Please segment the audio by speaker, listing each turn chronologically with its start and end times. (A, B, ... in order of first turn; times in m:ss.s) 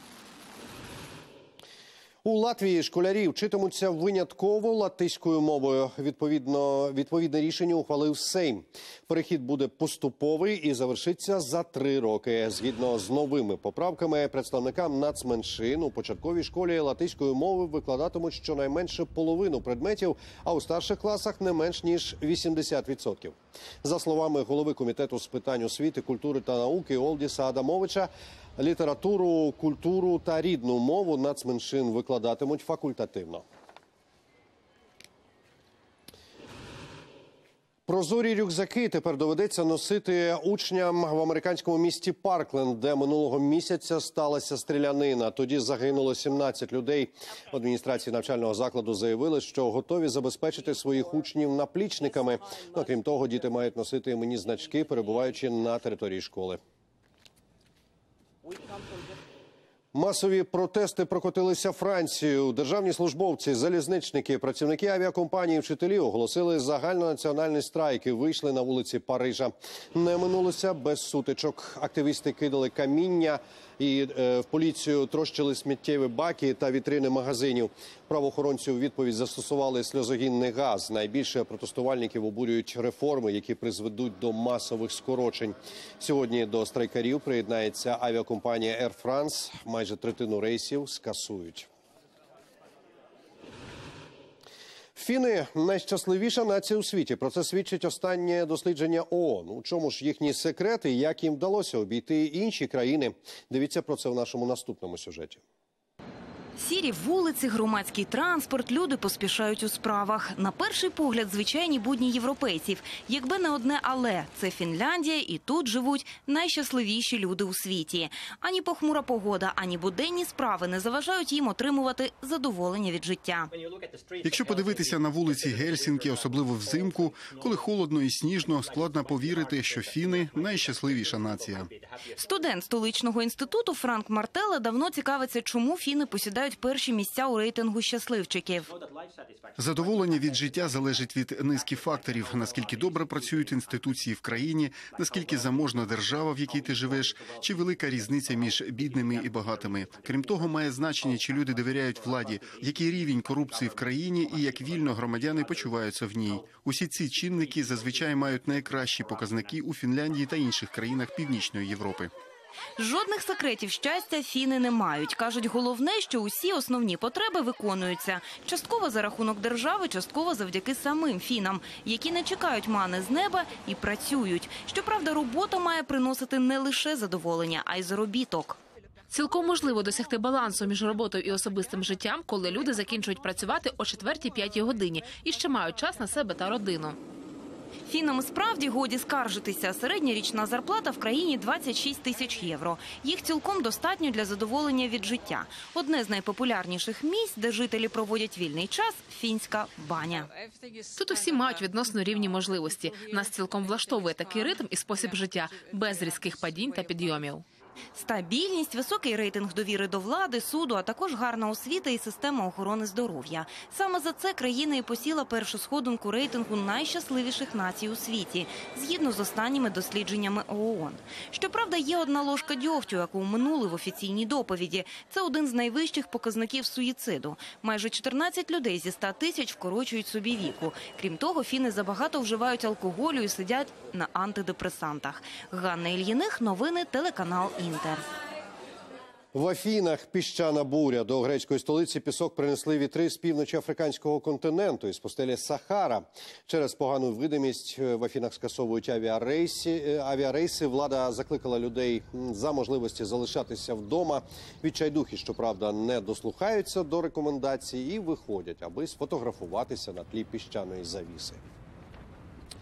0:02.2-0:33.4 A
0:37.9-0:56.6 A
0:59.9-1:31.7 A
1:35.0-1:45.4 A
1:46.6-2:03.5 B
2:04.2-2:11.7 C
2:12.1-2:18.7 B
2:19.6-2:42.1 C
2:42.8-2:58.6 B
2:59.1-3:07.0 D
3:07.8-3:20.3 B
3:21.0-3:27.4 D
3:28.0-3:58.1 B
3:59.3-4:21.4 A